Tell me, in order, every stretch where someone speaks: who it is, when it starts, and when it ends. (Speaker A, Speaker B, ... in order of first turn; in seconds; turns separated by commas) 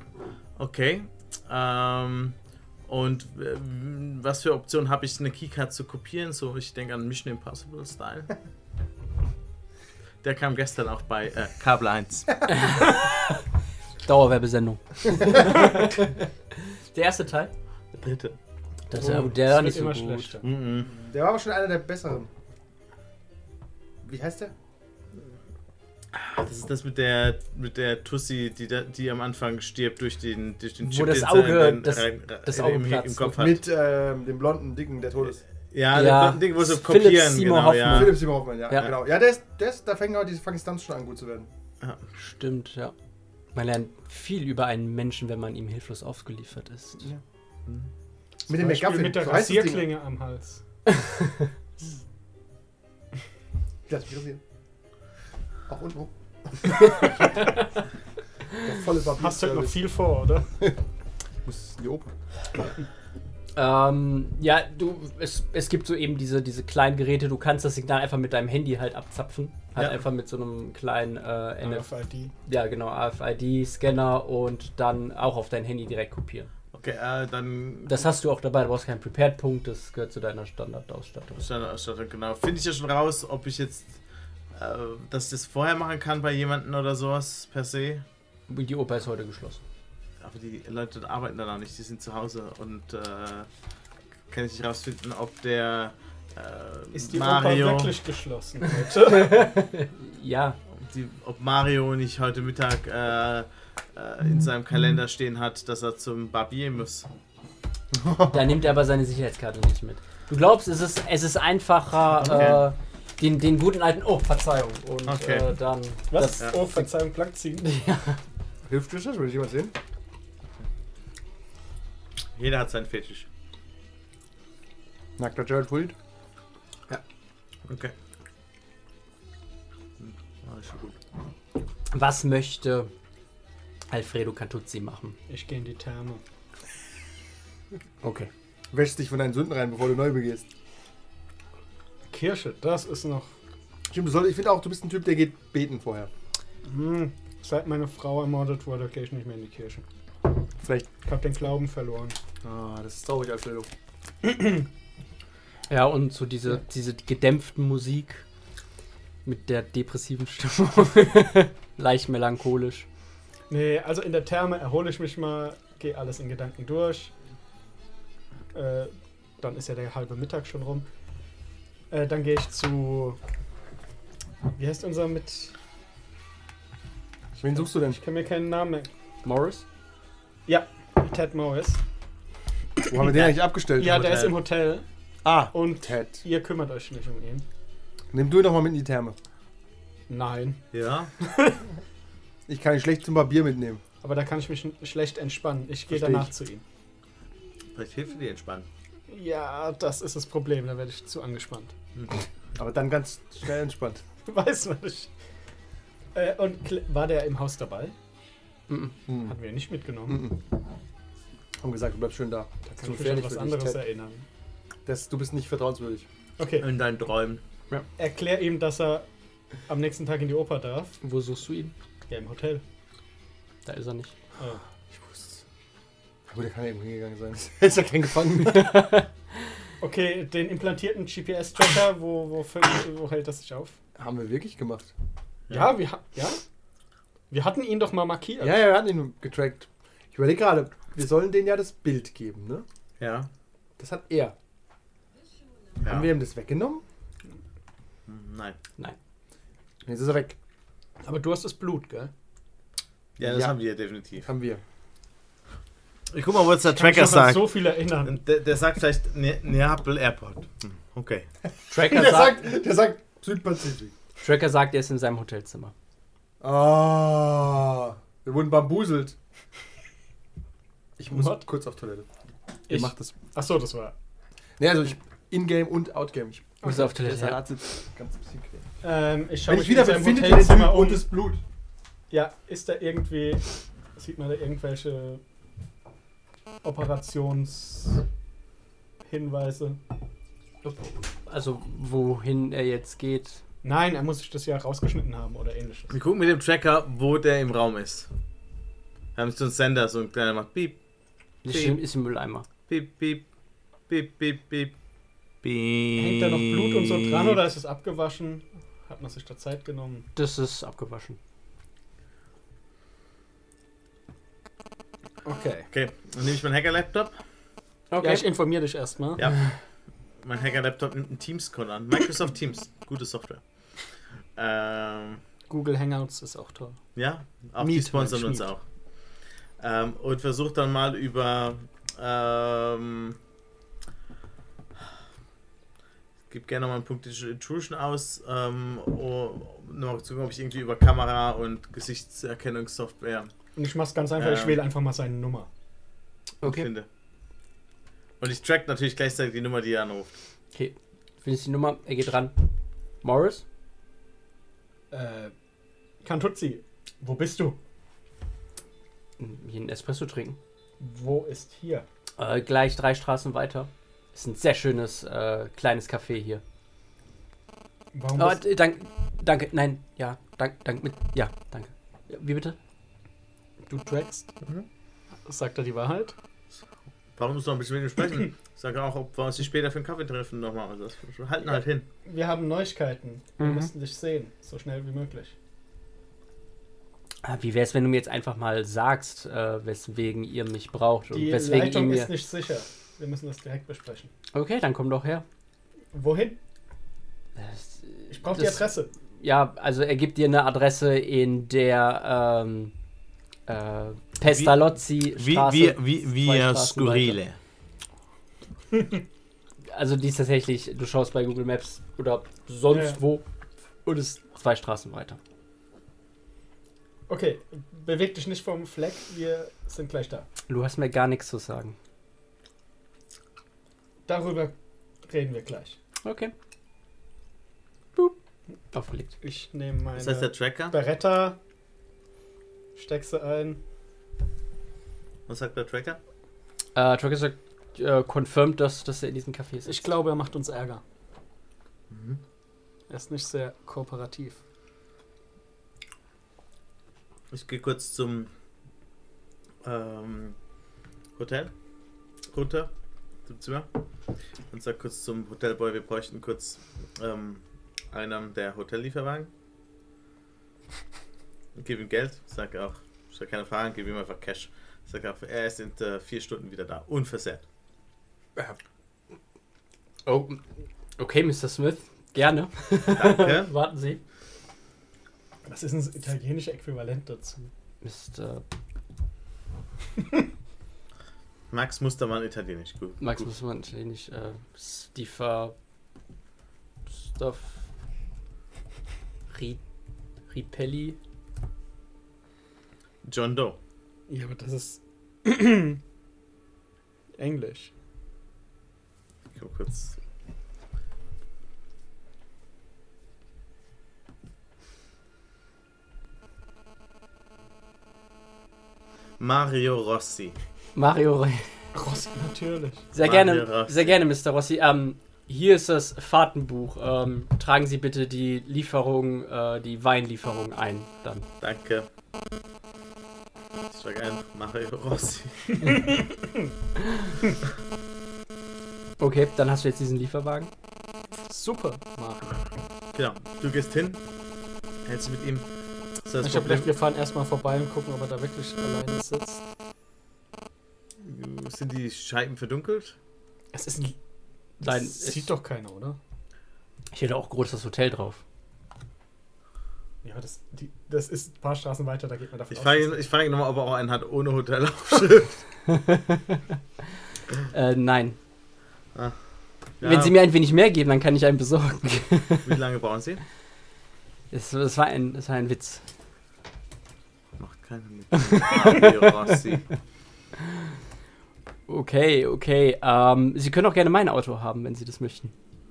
Speaker A: 0.6-2.4, Speaker A: 2.9-8.3, Speaker A: 10.2-12.4, Speaker B: 12.5-13.1, Speaker B: 14.1-16.3, Speaker B: 16.9-17.5, Speaker A: 17.9-18.4, Speaker B: 18.9-20.4, Speaker C: 18.9-20.5, Speaker A: 20.4-20.9, Speaker D: 20.8-22.3, Speaker D: 24.0-24.5, Speaker A: 26.1-33.6, Speaker B: 30.8-33.4, Speaker D: 33.3-35.4, Speaker A: 35.7-38.1, Speaker B: 35.9-38.9, Speaker D: 37.9-41.5, Speaker B: 42.2-42.9, Speaker B: 43.5-47.1, Speaker D: 48.5-49.9, Speaker C: 48.5-50.6, Speaker D: 53.9-54.4, Speaker D: 55.7-57.1, Speaker D: 58.6-59.9, Speaker C: 59.2-60.5, Speaker D: 61.4-62.1, Speaker B: 63.5-71.9, Speaker A: 69.8-70.0, Speaker C: 71.6-72.3, Speaker B: 72.5-76.5, Speaker A: 76.7-78.1, Speaker B: 77.9-81.5, Speaker A: 81.4-84.0, Speaker A: 84.5-88.0, Speaker B: 88.5-89.6, Speaker A: 90.2-93.5, Speaker A: 94.3-98.0, Speaker C: 96.9-99.5, Speaker B: 99.0-100.6, Speaker A: 100.8-107.1, Speaker D: 107.9-108.4, Speaker B: 108.3-116.8, Speaker A: 112.2-112.6, Speaker A: 115.1-115.5, Speaker C: 116.1-117.7, Speaker B: 117.6-118.2, Speaker D: 118.7-119.8, Speaker A: 122.4-123.3, Speaker D: 125.2-126.0, Speaker A: 127.7-127.9, Speaker A: 130.0-131.0, Speaker B: 131.9-132.9, Speaker B: 133.9-135.2, Speaker C: 135.3-136.2, Speaker B: 138.0-138.3, Speaker D: 138.7-140.4, Speaker C: 142.1-143.3, Speaker D: 143.9-146.1, Speaker C: 146.7-149.8, Speaker D: 150.6-150.9, Speaker C: 151.1-152.2, Speaker D: 152.4-153.7, Speaker C: 154.2-154.7, Speaker B: 155.7-158.2, Speaker B: 159.2-162.9, Speaker C: 163.5-167.1, Speaker C: 168.5-170.9, Speaker C: 171.9-173.2, Speaker C: 174.5-175.5, Speaker D: 177.4-178.0, Speaker C: 177.6-178.9, Speaker B: 179.2-179.6, Speaker C: 180.5-181.8, Speaker D: 182.9-184.2, Speaker A: 183.0-184.4, Speaker C: 183.8-184.8, Speaker D: 185.2-186.2, Speaker C: 185.5-187.4, Speaker D: 188.1-189.2, Speaker C: 190.1-190.6, Speaker A: 190.7-191.1, Speaker C: 191.2-191.6, Speaker D: 192.5-193.8, Speaker C: 194.0-196.6, Speaker D: 195.9-196.3, Speaker A: 197.8-198.7, Speaker C: 199.1-201.7, Speaker D: 202.6-204.0, Speaker C: 204.3-205.1, Speaker C: 206.1-207.9, Speaker B: 208.7-208.9, Speaker D: 209.1-209.4, Speaker C: 209.2-210.3, Speaker D: 210.1-210.4, Speaker D: 211.6-213.8, Speaker C: 212.7-214.2, Speaker D: 214.9-216.1, Speaker C: 216.4-216.7, Speaker A: 216.6-217.4, Speaker C: 218.0-219.1, Speaker C: 219.7-221.0, Speaker B: 221.0-221.7, Speaker C: 222.1-222.6, Speaker B: 223.7-224.1, Speaker D: 224.9-225.4, Speaker D: 226.3-228.9, Speaker B: 228.4-229.1, Speaker C: 229.8-233.8, Speaker D: 234.0-234.9, Speaker A: 235.5-235.8, Speaker C: 235.5-236.4, Speaker C: 237.3-238.7, Speaker D: 238.4-242.7, Speaker A: 243.0-243.3, Speaker D: 243.8-244.3, Speaker D: 245.8-246.8, Speaker A: 245.8-246.1, Speaker A: 248.1-248.6, Speaker D: 249.8-250.4, Speaker C: 251.0-252.1, Speaker D: 253.2-253.6, Speaker A: 253.2-254.3, Speaker D: 254.2-254.6, Speaker A: 256.1-261.3, Speaker C: 256.7-258.2, Speaker B: 261.7-262.4, Speaker D: 261.7-263.9, Speaker B: 264.2-265.7, Speaker D: 266.4-269.2, Speaker D: 271.0-272.1, Speaker C: 271.1-271.4, Speaker D: 272.7-273.1, Speaker C: 272.7-273.9, Speaker D: 274.6-278.6, Speaker B: 276.6-277.4, Speaker C: 278.8-281.1, Speaker D: 279.4-281.4, Speaker C: 282.1-285.2, Speaker C: 286.6-288.0, Speaker C: 289.1-289.8, Speaker B: 290.6-293.4, Speaker C: 293.6-296.0, Speaker A: 295.9-298.1, Speaker A: 299.2-300.8, Speaker B: 301.4-302.5, Speaker A: 301.4-301.8, Speaker A: 302.7-303.2, Speaker A: 303.9-304.7, Speaker A: 305.4-307.4, Speaker C: 306.0-310.1, Speaker B: 310.1-311.2, Speaker C: 315.2-315.7, Speaker A: 315.7-317.1, Speaker B: 317.9-318.3, Speaker C: 318.0-319.2, Speaker A: 319.2-319.4, Speaker A: 320.2-323.4, Speaker A: 324.4-325.2, Speaker C: 325.5-326.8, Speaker A: 327.0-328.6, Speaker C: 327.6-328.5, Speaker A: 329.6-333.2, Speaker A: 336.3-343.3, Speaker C: 343.6-345.5, Speaker A: 344.2-344.6, Speaker B: 346.4-346.7, Speaker A: 346.4-346.9, Speaker A: 348.2-350.1, Speaker B: 350.5-352.4, Speaker B: 353.0-353.4, Speaker C: 354.9-355.3, Speaker C: 356.0-357.6, Speaker B: 359.2-360.4, Speaker C: 360.8-361.9, Speaker B: 362.2-366.4, Speaker C: 367.9-368.4, Speaker B: 368.2-372.6, Speaker C: 373.7-374.3, Speaker C: 375.3-376.1, Speaker A: 377.2-381.9, Speaker C: 382.1-385.3, Speaker B: 387.2-392.1, Speaker C: 391.1-394.1, Speaker B: 394.3-395.2, Speaker C: 395.9-396.4, Speaker B: 397.4-398.7, Speaker C: 398.1-398.9, Speaker B: 399.2-402.7, Speaker B: 403.5-407.2, Speaker A: 404.3-407.4, Speaker B: 409.7-413.2, Speaker C: 412.7-413.0, Speaker B: 413.9-415.2, Speaker C: 417.1-420.3, Speaker B: 420.5-421.8, Speaker C: 424.1-424.5, Speaker C: 425.1-425.8, Speaker B: 426.0-426.3, Speaker B: 428.7-429.1, Speaker C: 429.2-431.4, Speaker A: 430.0-430.8, Speaker C: 432.8-433.6, Speaker A: 435.3-436.0, Speaker B: 436.8-439.9, Speaker C: 439.7-440.8, Speaker A: 441.9-442.2, Speaker C: 442.9-444.4, Speaker A: 447.3-448.3, Speaker A: 449.6-450.4, Speaker A: 451.2-451.5, Speaker A: 452.3-452.7, Speaker A: 453.3-453.7, Speaker A: 454.5-459.3, Speaker A: 461.6-467.4, Speaker B: 470.1-470.4, Speaker B: 471.0-474.0, Speaker A: 472.9-473.5, Speaker C: 475.5-477.4, Speaker B: 477.8-478.4, Speaker A: 481.5-483.3, Speaker B: 483.0-485.6, Speaker B: 486.9-487.7, Speaker B: 489.3-489.6, Speaker B: 490.3-491.0, Speaker A: 493.0-493.6, Speaker C: 494.1-495.8, Speaker C: 497.2-497.7, Speaker A: 499.4-499.9, Speaker A: 509.2-510.4, Speaker B: 510.8-511.5, Speaker C: 511.7-512.9, Speaker B: 512.9-521.3, Speaker A: 513.0-513.9, Speaker A: 521.4-521.9, Speaker A: 523.7-525.8, Speaker C: 525.7-526.0, Speaker B: 529.0-530.5, Speaker C: 531.3-532.4, Speaker A: 533.0-534.0, Speaker A: 534.9-535.5, Speaker A: 536.1-536.7, Speaker C: 536.2-539.4, Speaker A: 541.0-543.0, Speaker C: 543.5-544.0, Speaker C: 544.6-546.0, Speaker B: 544.6-545.3, Speaker B: 546.9-548.2, Speaker C: 550.0-553.1, Speaker A: 552.5-555.4, Speaker B: 555.7-556.6, Speaker B: 557.5-558.2, Speaker A: 559.8-560.2, Speaker B: 559.8-562.6, Speaker A: 562.5-563.2, Speaker B: 564.3-565.8, Speaker A: 567.4-569.7, Speaker B: 568.2-568.9, Speaker B: 571.7-575.3